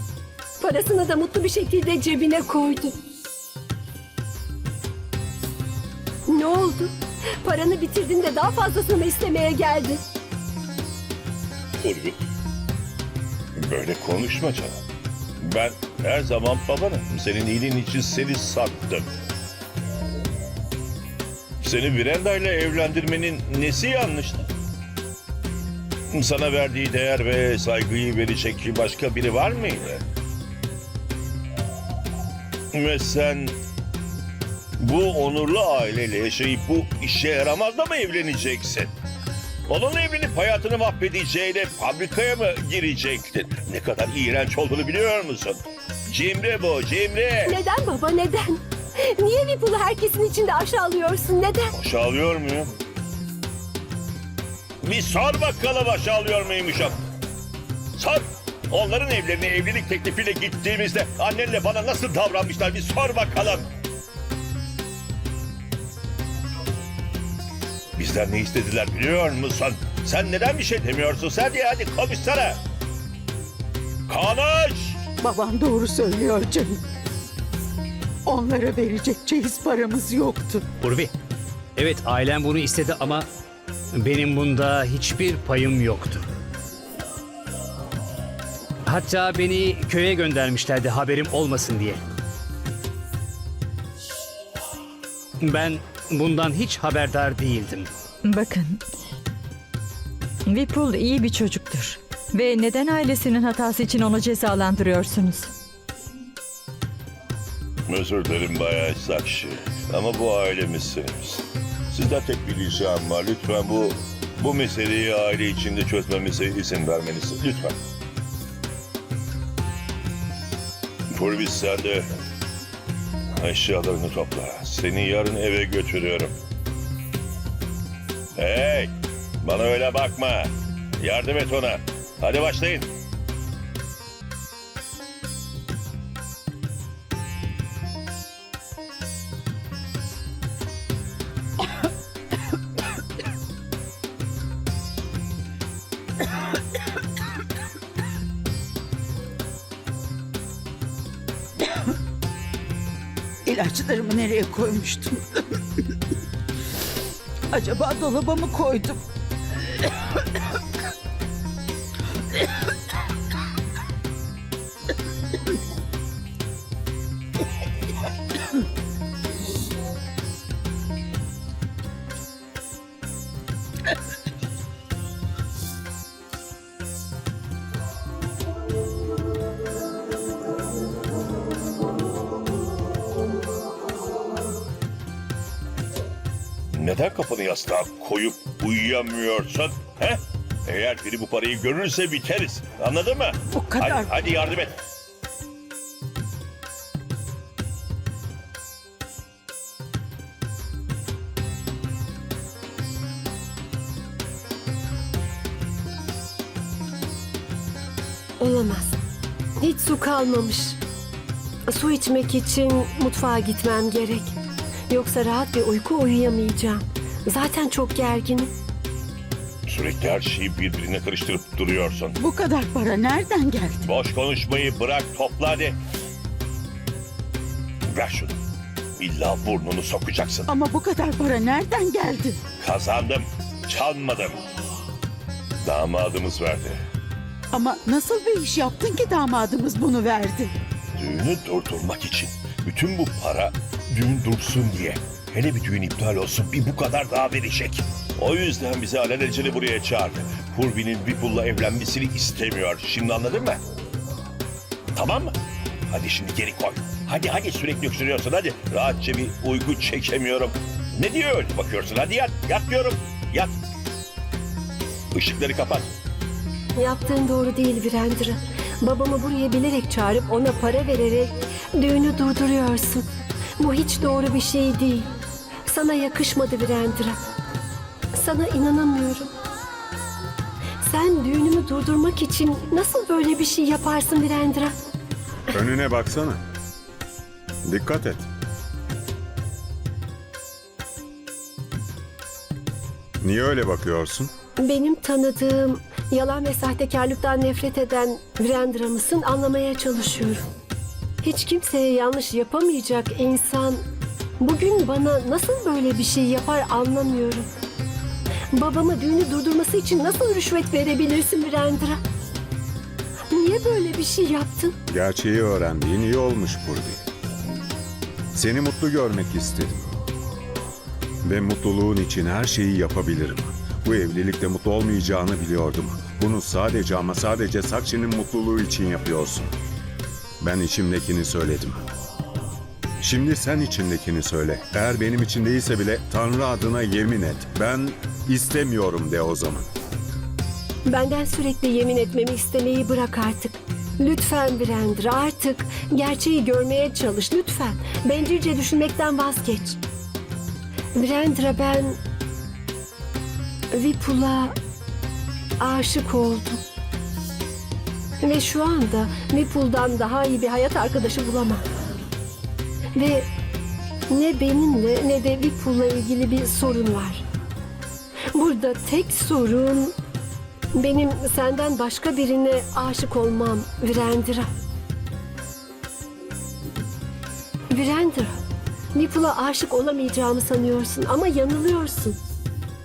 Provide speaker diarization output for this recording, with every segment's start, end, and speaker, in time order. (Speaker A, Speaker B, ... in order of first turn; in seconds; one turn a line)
Speaker A: 0.6-2.9
Speaker A: 6.3-10.1
Speaker B: 11.8-12.1
Speaker B: 13.6-14.7
Speaker B: 15.4-19.1
Speaker B: 21.6-24.4
Speaker B: 26.1-30.0
Speaker B: 32.7-33.6
Speaker B: 34.8-38.9
Speaker B: 39.7-47.6
Speaker A: 47.5-51.7
Speaker B: 51.7-52.7
Speaker B: 54.8-56.9
Speaker B: 58.0-63.6
Speaker B: 68.0-72.6
Speaker B: 74.1-75.0
Speaker C: 75.2-76.8
Speaker C: 78.3-80.6
Speaker D: 80.8-81.1
Speaker D: 81.8-83.3
Speaker D: 83.9-86.2
Speaker D: 88.9-92.0
Speaker D: 95.4-97.9
Speaker E: 98.2-98.8
Speaker E: 100.5-105.5
Speaker B: 107.9-117.7
Speaker B: 121.1-122.0
Speaker B: 123.4-126.3
Speaker B: 128.4-132.9
Speaker C: 153.4-155.5
Speaker C: 157.5-159.0
Speaker B: 186.7-194.7
Speaker C: 193.5-194.1
Speaker A: 208.4-209.0
Speaker A: 209.6-210.8
Speaker A: 211.7-214.4
Speaker A: 214.9-218.5
Speaker B: 219.7-222.2
Speaker C: 222.2-223.8
Speaker B: 223.8-225.8
Speaker B: 227.9-228.4
Speaker B: 229.0-230.5
Speaker C: 230.5-232.4
Speaker B: 232.6-234.4
Speaker B: 235.6-236.8
Speaker C: 237.5-240.5
Speaker B: 241.0-253.6
Speaker B: 254.9-255.3
Speaker B: 255.9-263.6
Speaker B: 265.1-265.9
Speaker A: 266.8-273.1
Speaker A: 273.6-275.1
Speaker A: 275.6-277.1
Speaker A: 278.1-279.3
Speaker A: 280.8-284.7
Speaker F: 285.5-286.4
Speaker F: 287.6-288.3
Speaker F: 293.2-294.3
Speaker A: 294.6-300.4
Speaker A: 301.2-303.8
Speaker A: 304.4-307.5
Speaker A: 308.5-312.0
Speaker A: 313.3-314.8
Speaker F: 314.9-317.0
Speaker F: 318.3-319.9
Speaker F: 321.2-329.5
Speaker F: 330.4-331.8
Speaker F: 333.0-339.7
Speaker A: 340.9-349.8
Speaker A: 350.9-352.0
Speaker A: 353.7-354.5
Speaker A: 355.6-356.6
Speaker A: 358.2-361.6
Speaker A: 362.9-363.3
Speaker A: 364.1-367.2
Speaker A: 368.3-369.9
Speaker A: 370.7-374.5
Speaker A: 377.7-378.3
Speaker A: 378.9-382.2